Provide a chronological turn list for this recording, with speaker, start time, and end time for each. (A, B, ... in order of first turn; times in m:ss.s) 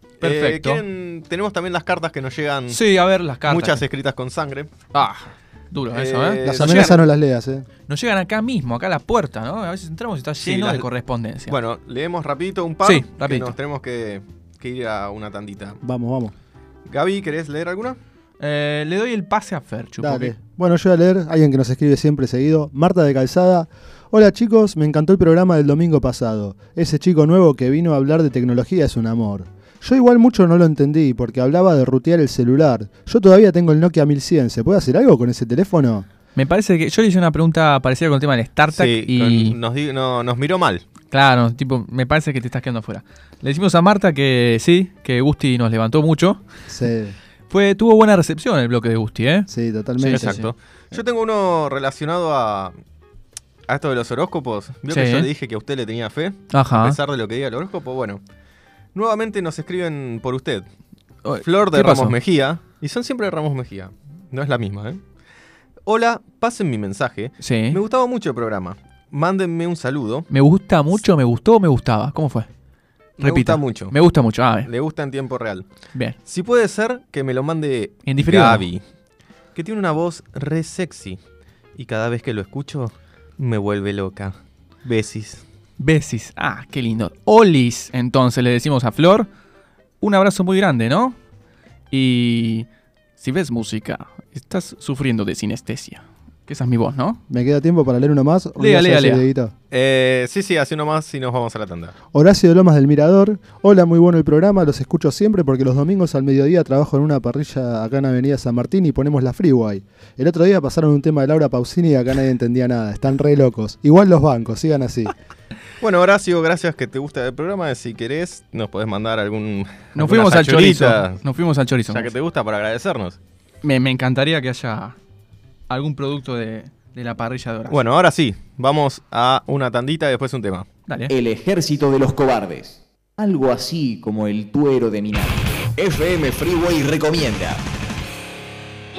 0:00.2-0:02.8 A
0:00.2-0:00.8 B
0:02.7-0:03.8 B
0:03.4-0:04.7 A
0:04.9-0:07.0 B
0:05.9-0:07.0 A
0:06.4-0:07.7 C
0:07.9-0:11.6 B
0:10.4-0:10.9 A
0:11.5-0:15.8 A
0:12.8-0:13.6 B
0:15.8-0:16.3 C
0:16.9-0:18.0 A
0:18.4-0:20.4 B
0:20.0-0:36.1 C
0:36.4-0:39.6 B
0:38.7-0:40.8 A
0:41.1-0:46.4 B
0:46.7-0:47.2 C
0:47.5-0:50.5 B
0:49.5-0:50.4 C
0:50.1-0:52.7 A
0:53.7-0:58.2 A
0:54.9-0:55.3 B
0:56.5-0:57.0 B
0:59.0-1:00.7 A
1:01.2-1:02.2 B
1:01.4-1:05.0 A
1:05.8-1:10.3 A
1:07.4-1:07.8 B
1:10.3-1:12.5 B
1:13.2-1:14.0 A
1:13.2-1:14.7 B
1:14.7-1:15.7 A
1:16.3-1:18.8 A
1:18.0-1:18.7 B
1:19.6-1:21.2 A
1:21.8-1:25.4 A
1:25.8-1:29.3 B
1:30.0-1:31.2 B
1:31.9-1:37.2 B
1:37.3-1:39.5 C
1:38.6-1:39.3 B
1:39.7-1:41.9 A
1:42.1-1:55.1 C
1:55.8-2:01.2 A
2:00.0-2:02.1 B
2:01.9-2:03.2 A
2:03.6-2:05.0 B
2:05.7-2:07.8 B
2:07.7-2:10.7 A
2:10.9-2:11.1 B
2:11.1-2:17.7 D